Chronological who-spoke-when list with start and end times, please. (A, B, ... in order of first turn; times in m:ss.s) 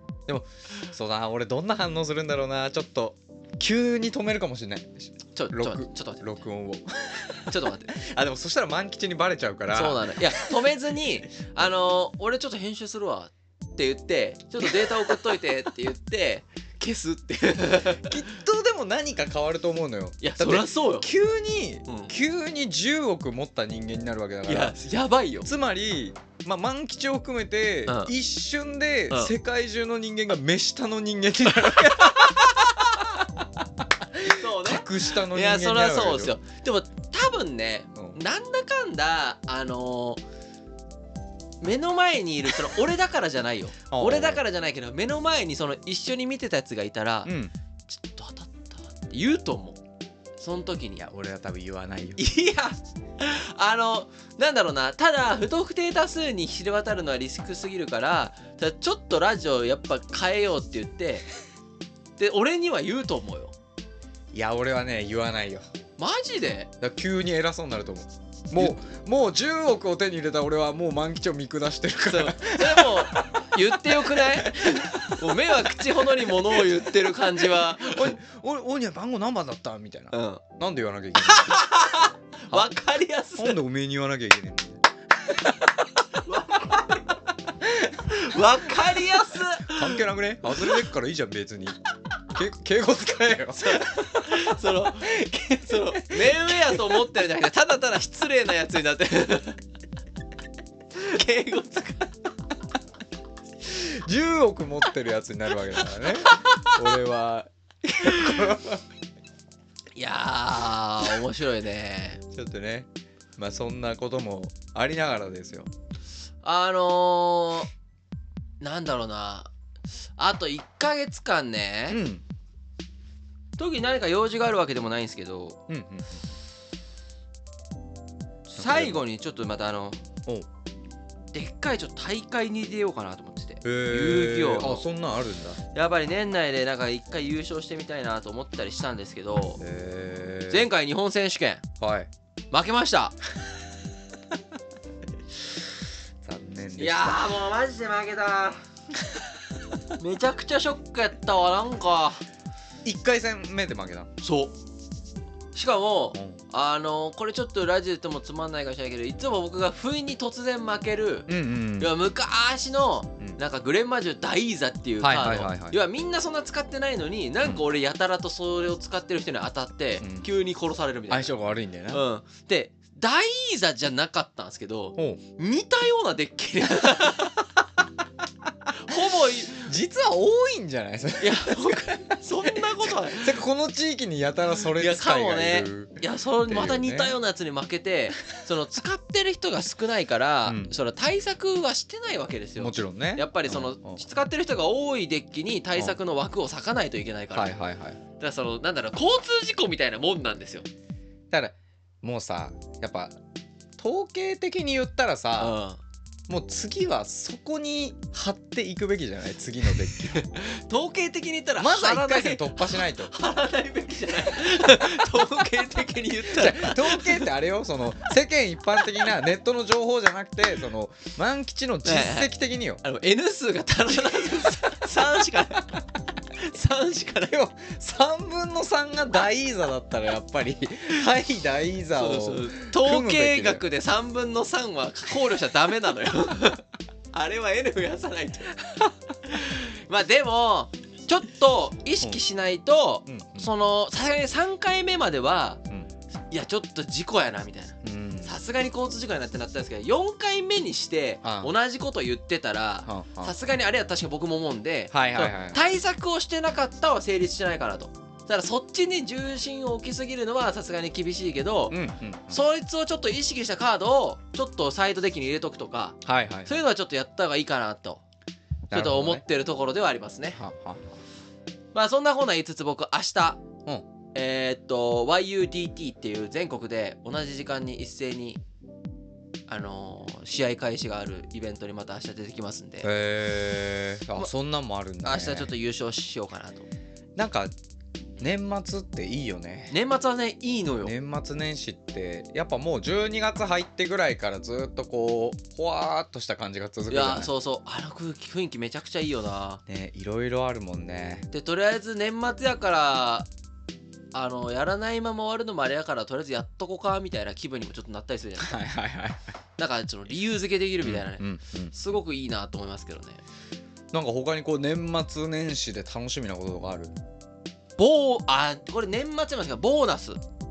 0:00.3-0:10.5 A
0:05.4-0:06.4 B
0:07.5-0:07.9 B
0:09.7-0:18.2 B
0:14.6-0:15.1 A
0:17.8-0:24.8 A
0:20.2-0:21.1 B
0:21.9-0:22.1 B
0:24.4-0:25.5 B
0:25.4-0:36.4 A
0:27.9-0:28.1 B
0:34.2-0:40.2 B
0:41.6-0:47.3 B
0:43.9-0:44.4 A
0:47.2-0:47.5 A
0:47.9-0:49.8 B
0:50.4-0:51.0 B
0:51.0-0:52.2 A
0:52.2-1:01.3 B
1:02.2-1:03.5 B
1:04.3-1:05.6 A
1:06.0-1:06.7 B
1:06.8-1:21.6 A
1:12.1-1:18.2 B
1:20.1-1:20.4 B
1:21.3-1:23.6 B
1:23.4-1:24.8 A
1:25.4-1:27.0 B
1:27.6-1:28.2 A
1:28.1-1:30.0 B
1:29.6-1:31.8 A
1:32.3-1:36.9 A
1:33.6-1:39.6 B
1:41.0-1:42.1 B
1:43.6-1:48.8 A
1:46.0-1:46.9 B
1:49.9-1:52.2 B
1:52.3-1:55.7 A
1:56.4-1:57.7 B
1:58.6-1:59.5 B
2:00.2-2:02.0 B
2:01.9-2:02.2 A
2:03.6-2:05.6 B
2:05.7-2:06.2 A
2:08.5-2:09.0 A
2:08.6-2:10.0 B
2:11.3-2:14.8 B
2:13.6-2:15.6 A
2:15.7-2:19.6 B
2:19.6-2:20.7 A
2:20.5-2:21.6 B
2:21.8-2:22.1 A
2:22.5-2:23.2 B
2:26.2-2:27.3 A
2:26.8-2:28.6 B
2:30.0-2:32.2 B
2:32.8-2:34.1 A
2:34.2-2:34.5 B
2:35.5-2:51.3 B
2:36.1-2:36.4 A
2:41.3-2:41.9 A
2:45.0-2:45.8 A
2:50.0-2:50.3 A
2:51.1-2:52.0 A
2:51.9-2:57.4 B
2:58.8-2:59.7 B
2:59.6-3:07.1 A
3:01.2-3:03.4 B
3:04.8-3:17.5 B
3:10.4-3:10.7 A
3:12.6-3:14.0 A
3:17.3-3:18.0 A
3:18.2-3:20.7 B
3:21.3-3:23.2 A
3:23.8-3:25.5 A
3:25.4-3:25.8 B
3:26.3-3:30.3 A
3:30.1-3:37.3 B
3:31.6-3:33.1 A
3:36.2-3:42.8 A
3:41.8-3:42.3 B
3:42.8-3:45.8 B
3:44.0-3:44.7 A
3:46.3-3:47.4 B
3:47.3-3:53.6 A
3:51.9-4:05.6 B
4:03.0-4:03.5 A
4:06.3-4:28.0 B
4:07.8-4:08.4 A
4:11.2-4:11.5 A
4:12.9-4:13.3 A
4:14.9-4:15.6 A
4:21.7-4:22.4 A
4:26.0-4:26.6 A
4:28.7-4:29.2 A
4:28.7-4:30.4 B
4:30.4-4:31.0 A
4:31.7-4:33.4 B
4:34.1-4:38.4 B
4:39.5-4:42.9 B
4:42.8-4:45.5 A
4:45.0-4:46.7 B
4:47.2-4:47.5 A
4:48.2-4:49.7 A
4:49.7-4:50.9 B
4:50.8-4:57.3 A
4:56.9-4:59.6 B
4:59.7-5:01.3 A
5:01.3-5:03.3 B
5:04.1-5:08.6 B
5:08.4-5:09.2 A
5:09.6-5:13.2 B
5:10.8-5:11.7 A
5:13.9-5:16.9 A
5:17.8-5:20.2 B